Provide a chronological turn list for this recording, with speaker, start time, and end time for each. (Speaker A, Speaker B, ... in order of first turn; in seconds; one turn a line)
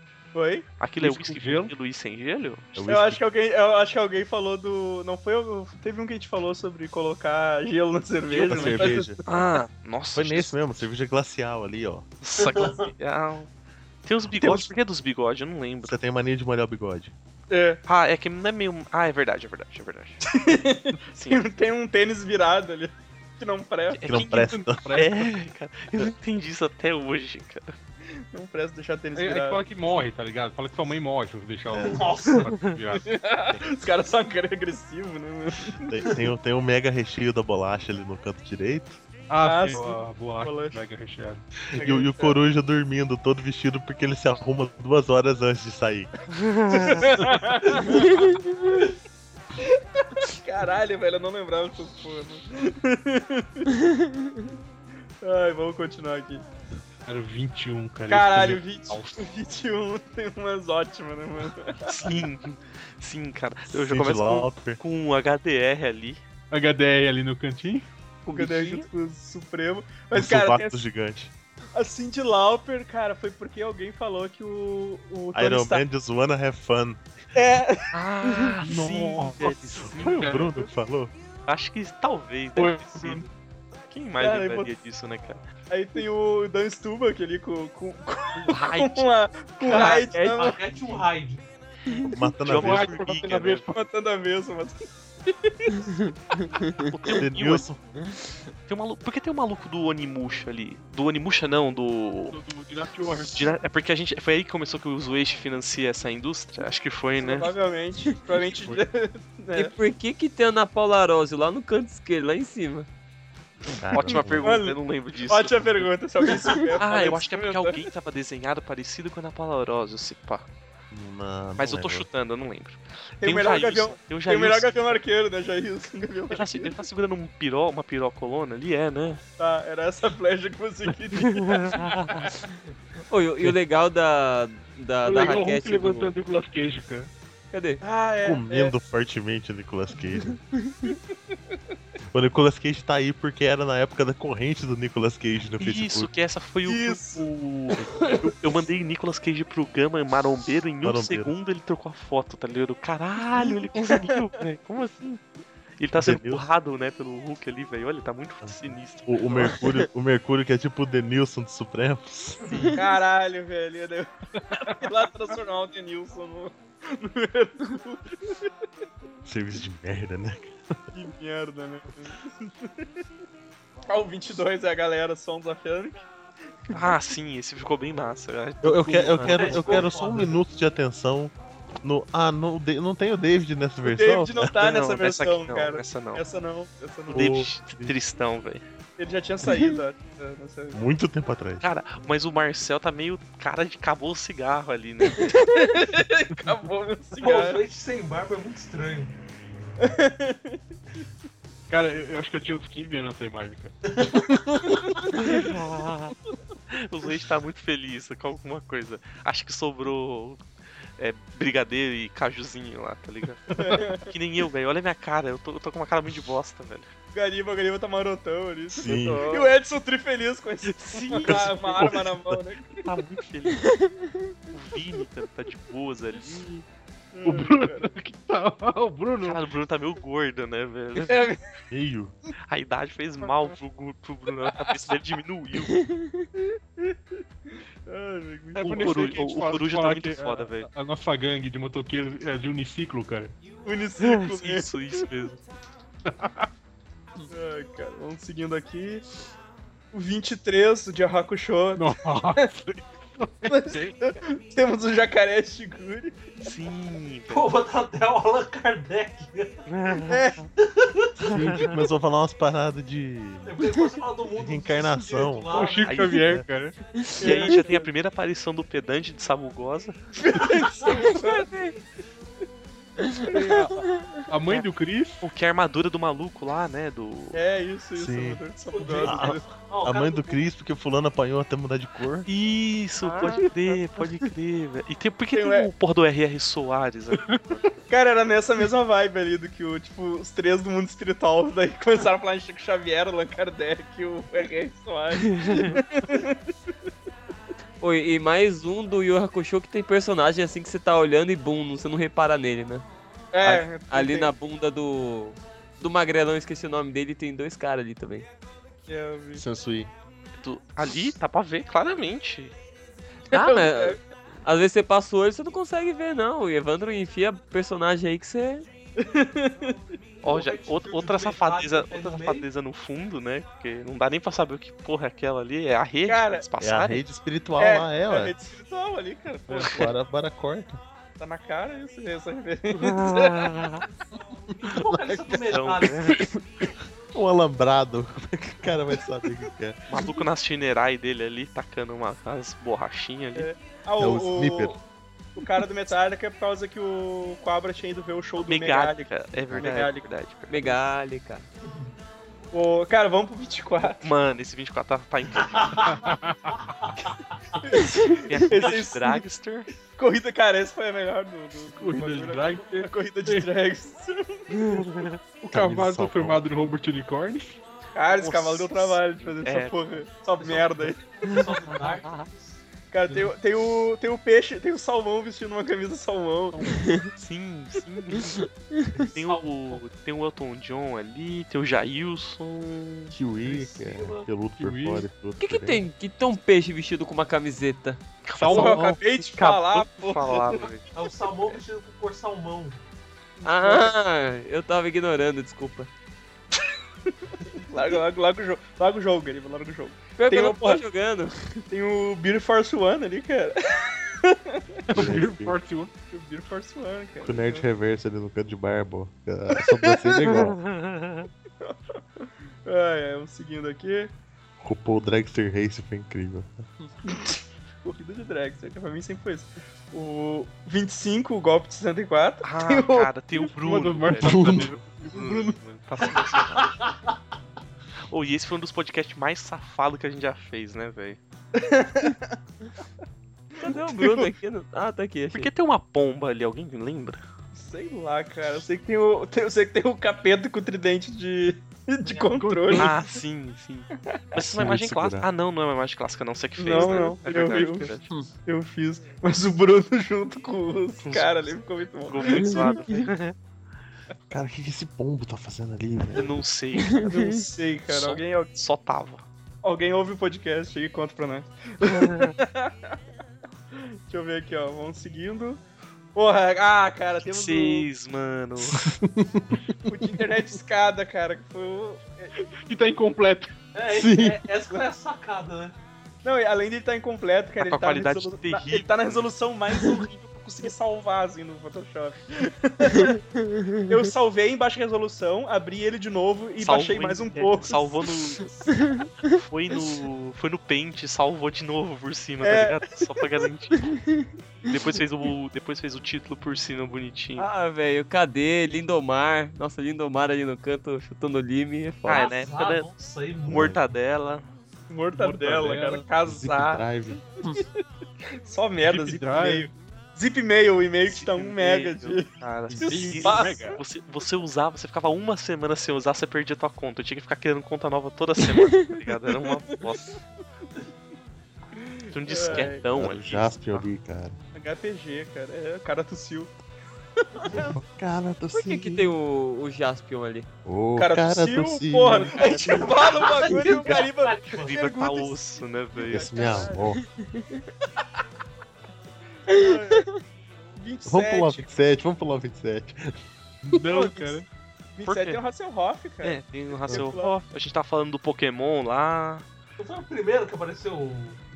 Speaker A: 0.3-0.7
Speaker B: 0.8-2.7
Speaker C: 1.0-1.7
Speaker D: 2.7-3.2
Speaker A: 2.9-9.5
Speaker C: 8.4-9.0
Speaker D: 8.4-9.2
Speaker B: 9.2-10.5
Speaker D: 10.1-12.1
Speaker B: 12.2-13.5
Speaker E: 12.4-12.9
Speaker B: 14.0-15.9
Speaker D: 14.4-14.7
Speaker D: 15.8-17.1
Speaker A: 17.5-17.8
Speaker B: 17.9-20.2
Speaker A: 20.3-24.0
Speaker B: 21.1-21.4
Speaker B: 23.9-27.7
Speaker D: 24.1-25.1
Speaker A: 28.3-29.6
Speaker C: 29.1-33.2
Speaker E: 31.7-32.5
Speaker A: 33.0-35.9
Speaker D: 35.8-39.0
Speaker C: 39.3-41.4
Speaker A: 39.4-40.8
Speaker D: 41.7-46.3
Speaker A: 41.7-42.4
Speaker B: 46.4-47.0
Speaker A: 46.7-48.2
Speaker A: 50.2-53.7
Speaker A: 55.2-56.4
Speaker C: 57.0-59.2
Speaker A: 58.1-62.1
Speaker B: 61.9-66.2
Speaker D: 63.7-64.8
Speaker C: 66.5-67.9
Speaker A: 68.2-70.8
Speaker F: 68.3-68.8
Speaker D: 70.1-71.3
Speaker A: 71.7-75.8
Speaker D: 75.3-77.0
Speaker A: 77.3-77.9
Speaker B: 77.9-80.2
Speaker C: 78.6-80.7
Speaker D: 79.8-81.1
Speaker B: 81.5-83.2
Speaker C: 82.5-83.2
Speaker B: 83.9-85.4
Speaker A: 84.2-84.7
Speaker A: 85.7-90.6
Speaker B: 88.3-90.0
Speaker F: 89.7-90.6
Speaker E: 89.9-91.4
Speaker D: 92.1-92.9
Speaker B: 92.4-93.7
Speaker C: 92.5-93.8
Speaker A: 93.7-95.8
Speaker B: 96.8-97.7
Speaker D: 97.1-97.8
Speaker B: 98.7-102.4
Speaker C: 102.3-103.5
Speaker B: 103.2-107.5
Speaker A: 107.2-109.7
Speaker C: 108.5-108.8
Speaker F: 109.5-112.9
Speaker D: 113.8-114.6
Speaker B: 113.9-115.9
Speaker A: 114.4-117.8
Speaker B: 116.8-120.5
Speaker D: 120.9-122.1
Speaker B: 121.6-125.0
Speaker A: 123.2-126.7
Speaker B: 126.3-129.2
Speaker A: 129.4-131.8
Speaker B: 131.3-132.3
Speaker F: 133.1-136.1
Speaker C: 135.0-137.1
Speaker F: 137.5-137.8
Speaker A: 137.8-138.7
Speaker D: 138.2-140.4
Speaker A: 140.8-141.3
Speaker D: 142.1-146.1
Speaker B: 145.6-155.2
Speaker A: 146.6-147.3
Speaker D: 150.8-151.3
Speaker A: 153.4-154.2
Speaker B: 155.8-159.7
Speaker D: 155.9-156.4
Speaker D: 158.4-162.8
Speaker A: 162.7-168.5
Speaker C: 164.5-164.9
Speaker D: 169.2-170.6
Speaker A: 170.9-172.9
Speaker A: 173.9-176.1
Speaker B: 176.7-179.9
Speaker D: 178.6-184.5
Speaker E: 179.2-180.4
Speaker A: 183.8-187.2
Speaker B: 184.5-186.2
Speaker D: 187.1-187.9
Speaker B: 187.1-188.6
Speaker A: 189.0-190.8
Speaker D: 190.7-191.6
Speaker B: 191.6-195.5
Speaker A: 195.2-197.6
Speaker C: 196.3-196.6
Speaker E: 197.2-199.1
Speaker A: 199.8-200.6
Speaker C: 201.7-204.8
Speaker A: 204.7-205.4
Speaker B: 205.1-206.2
Speaker B: 206.7-210.4
Speaker B: 211.0-216.9
Speaker A: 213.6-214.1
Speaker A: 217.1-222.8
Speaker D: 218.7-219.3
Speaker F: 218.8-219.5
Speaker B: 220.7-221.9
Speaker D: 221.2-222.4
Speaker B: 222.8-223.8
Speaker B: 224.5-226.6
Speaker A: 227.1-227.9
Speaker C: 227.2-229.4
Speaker B: 229.2-231.3
Speaker A: 231.0-231.4
Speaker D: 231.7-232.1
Speaker B: 232.5-235.8
Speaker A: 236.5-239.1
Speaker C: 238.6-243.3
Speaker B: 238.7-240.7
Speaker A: 243.6-244.7
Speaker B: 244.0-245.4
Speaker C: 246.1-246.5
Speaker A: 247.3-249.0
Speaker A: 249.9-252.5
Speaker C: 251.8-254.0
Speaker A: 253.5-256.2
Speaker B: 256.4-257.5
Speaker E: 257.3-259.6
Speaker B: 259.7-260.3
Speaker A: 260.1-260.4
Speaker E: 260.6-261.1
Speaker D: 261.3-263.5
Speaker B: 261.3-261.8
Speaker E: 263.4-266.1
Speaker D: 264.3-265.6
Speaker C: 265.5-266.8
Speaker B: 265.8-266.3
Speaker D: 266.2-266.4
Speaker F: 267.1-267.6
Speaker A: 267.2-267.9
Speaker B: 267.2-269.9
Speaker A: 270.2-271.5
Speaker E: 270.5-271.8
Speaker F: 270.9-271.6
Speaker F: 273.1-273.5
Speaker C: 273.3-275.3
Speaker B: 275.2-277.4
Speaker A: 277.3-279.4
Speaker D: 277.9-278.4
Speaker E: 278.7-280.4
Speaker D: 279.0-282.3
Speaker B: 282.2-287.3
Speaker A: 285.3-285.7
Speaker A: 287.9-296.5
Speaker B: 295.4-295.8
Speaker F: 297.8-302.9
Speaker A: 303.3-304.3
Speaker F: 303.4-308.3
Speaker A: 308.9-309.4
Speaker D: 309.4-309.9
Speaker B: 310.4-312.5
Speaker F: 313.3-318.6
Speaker A: 313.3-314.0
Speaker A: 319.0-319.8
Speaker E: 320.2-322.5
Speaker B: 320.2-327.0
Speaker A: 326.1-326.4
Speaker D: 326.6-328.4
Speaker A: 327.6-329.8
Speaker C: 329.5-329.8
Speaker D: 329.7-330.8
Speaker A: 331.2-333.5
Speaker B: 332.8-333.9
Speaker D: 334.7-335.1
Speaker E: 334.7-336.3
Speaker B: 335.5-336.3
Speaker D: 337.1-339.8
Speaker B: 339.9-343.5
Speaker A: 343.4-344.8
Speaker D: 344.0-344.8
Speaker A: 345.4-350.0
Speaker B: 348.4-350.8
Speaker F: 350.5-351.4
Speaker A: 352.5-354.1
Speaker B: 354.0-356.0
Speaker E: 355.5-355.9
Speaker C: 355.8-356.6
Speaker E: 356.8-357.1
Speaker A: 357.6-359.2
Speaker B: 358.1-359.7
Speaker A: 359.9-364.8
Speaker C: 361.7-363.5
Speaker B: 364.7-365.2
Speaker C: 365.4-367.6
Speaker D: 365.5-366.4
Speaker A: 367.9-371.0
Speaker B: 368.1-369.8
Speaker E: 370.4-372.6
Speaker B: 371.7-372.2
Speaker A: 372.9-376.6
Speaker B: 377.2-378.5
Speaker E: 379.0-379.8
Speaker B: 379.1-383.1
Speaker D: 383.1-385.9
Speaker E: 383.4-384.3
Speaker C: 384.6-385.1
Speaker F: 385.4-388.0
Speaker B: 388.2-390.9
Speaker C: 388.4-388.8
Speaker A: 388.5-390.6
Speaker E: 390.9-392.8
Speaker A: 393.4-393.9
Speaker F: 393.4-395.9
Speaker A: 397.6-400.8
Speaker F: 400.2-401.6
Speaker A: 401.7-404.6
Speaker C: 404.9-405.9
Speaker D: 404.9-405.5
Speaker A: 406.1-407.6
Speaker D: 407.2-410.6
Speaker B: 410.2-411.3
Speaker A: 412.6-414.1
Speaker D: 414.6-416.6
Speaker A: 417.1-423.1
Speaker B: 422.4-426.7
Speaker C: 423.4-425.3
Speaker D: 424.2-424.7
Speaker E: 426.1-427.1
Speaker B: 428.1-431.2
Speaker A: 431.5-432.3
Speaker A: 433.6-434.3
Speaker F: 433.6-435.5
Speaker B: 435.3-437.2
Speaker A: 437.6-442.9
Speaker C: 442.1-442.9
Speaker B: 442.7-448.1
Speaker D: 444.4-445.3
Speaker A: 446.6-447.9
Speaker C: 447.5-447.8
Speaker A: 448.4-452.8
Speaker B: 451.0-451.4
Speaker B: 452.1-453.3
Speaker F: 452.4-453.0
Speaker D: 454.3-456.3
Speaker B: 456.1-457.1
Speaker F: 456.9-457.4
Speaker A: 457.0-458.5
Speaker B: 457.9-459.2
Speaker A: 459.6-462.9
Speaker B: 461.8-462.4
Speaker A: 463.8-465.6
Speaker A: 466.1-467.9
Speaker B: 467.2-468.9
Speaker D: 468.6-469.8
Speaker A: 469.9-472.3
Speaker C: 472.4-473.5
Speaker E: 473.7-475.7
Speaker D: 473.9-474.4
Speaker A: 476.2-483.2
Speaker B: 477.6-479.3
Speaker A: 483.9-487.9
Speaker B: 486.6-488.6
Speaker B: 489.4-494.0
Speaker A: 492.4-492.9
Speaker B: 494.7-497.5
Speaker F: 497.4-502.3
Speaker B: 502.0-502.9
Speaker E: 502.1-503.8
Speaker B: 503.5-504.5
Speaker A: 504.9-506.9
Speaker C: 505.1-506.1
Speaker D: 506.2-507.2
Speaker A: 508.4-512.3
Speaker C: 508.8-509.7
Speaker B: 511.1-520.2
Speaker C: 512.8-513.8
Speaker A: 512.8-513.8
Speaker B: 522.0-523.9
Speaker A: 522.2-522.8
Speaker D: 522.5-524.4
Speaker A: 524.5-526.5
Speaker D: 527.5-529.1
Speaker F: 528.5-530.5
Speaker D: 530.6-532.6
Speaker A: 531.0-536.9
Speaker F: 532.4-532.9
Speaker E: 532.5-534.7
Speaker B: 534.6-536.6
Speaker D: 536.1-537.0
Speaker A: 539.5-540.1
Speaker F: 539.5-539.8
Speaker A: 540.8-541.7
Speaker D: 541.0-543.1
Speaker C: 543.7-544.5
Speaker A: 543.9-544.4
Speaker A: 545.0-547.3
Speaker B: 545.1-545.4
Speaker B: 546.2-549.4
Speaker E: 549.8-551.4